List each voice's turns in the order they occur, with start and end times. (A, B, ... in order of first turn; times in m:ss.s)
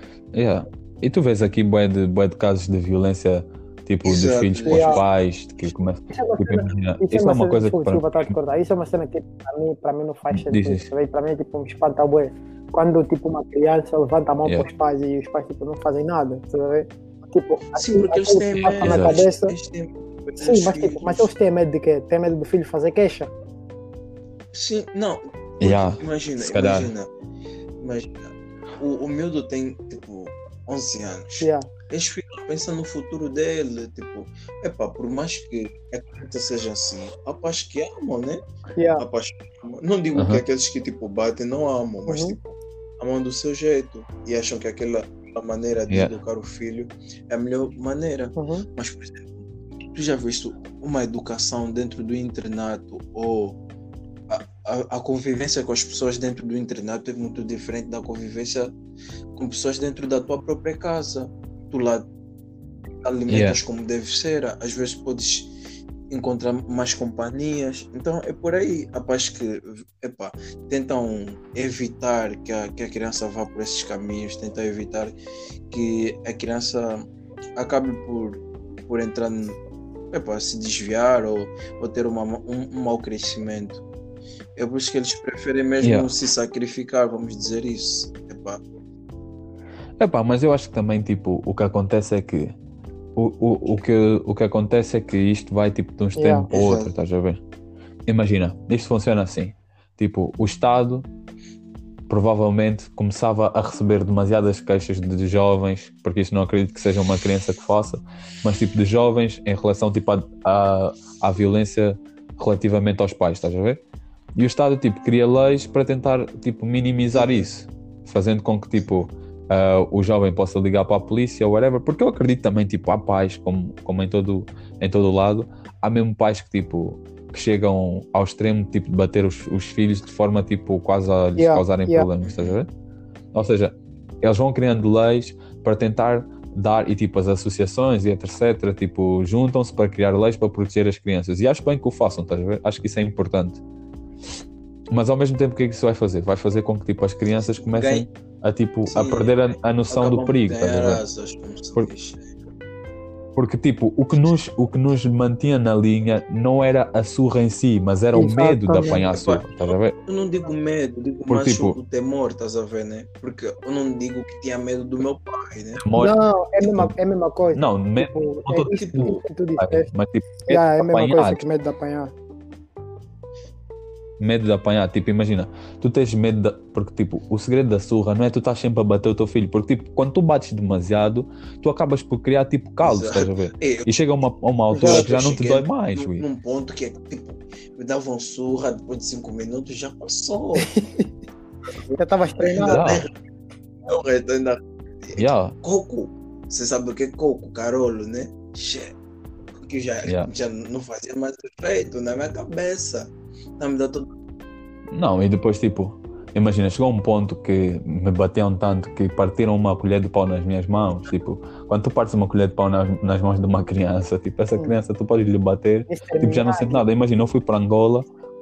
0:00.3-0:08.4 A
0:04.0-0:05.0 B
0:04.7-0:05.0 C
0:06.1-0:19.5 C
0:10.3-0:10.9 A
0:17.8-0:21.3 B
0:18.6-0:19.2 A
0:20.4-0:23.3 C
0:24.5-0:27.1 B
0:25.6-0:26.9 A
0:27.8-0:38.4 B
0:31.4-0:31.7 C
0:38.8-0:39.0 C
0:39.0-0:53.6 B
0:40.2-0:40.4 A
0:42.1-0:42.4 C
0:48.4-0:48.7 C
0:54.3-0:58.7 B
0:59.3-1:02.0 B
1:03.0-1:05.5 B
1:03.3-1:03.6 A
1:06.1-1:15.1 B
1:15.7-1:19.6 B
1:20.1-1:23.8 B
1:24.6-1:28.6 B
1:25.8-1:26.1 A
1:30.0-1:32.6 A
1:33.2-1:37.4 A
1:36.2-1:36.5 C
1:36.5-1:36.9 B
1:38.1-1:41.1 A
1:42.1-1:53.8 A
1:54.4-2:12.7 A
1:57.1-1:57.5 B
2:11.4-2:12.1 C
2:12.2-2:12.6 B
2:13.3-2:23.6 A
2:24.9-2:31.0 A
2:27.6-2:28.1 B
2:28.9-2:29.4 B
2:29.9-2:32.2 B
2:33.4-2:40.0 A
2:38.1-2:39.0 C
2:38.8-2:45.8 B
2:41.3-2:41.8 A
2:45.8-2:46.9 A
2:46.0-2:49.9 C
2:47.5-2:51.4 A
2:48.7-2:49.2 B
2:50.5-2:52.1 C
2:54.2-3:06.2 A
3:02.8-3:04.1 B
3:04.7-3:05.1 C
3:04.8-3:10.7 B
3:10.7-3:11.1 C
3:11.9-3:13.1 B
3:12.0-3:12.9 C
3:12.6-3:13.1 A
3:13.9-3:19.0 B
3:15.2-3:15.6 A
3:19.6-3:24.1 B
3:20.0-3:20.3 A
3:24.9-3:38.1 A
3:35.9-3:36.8 C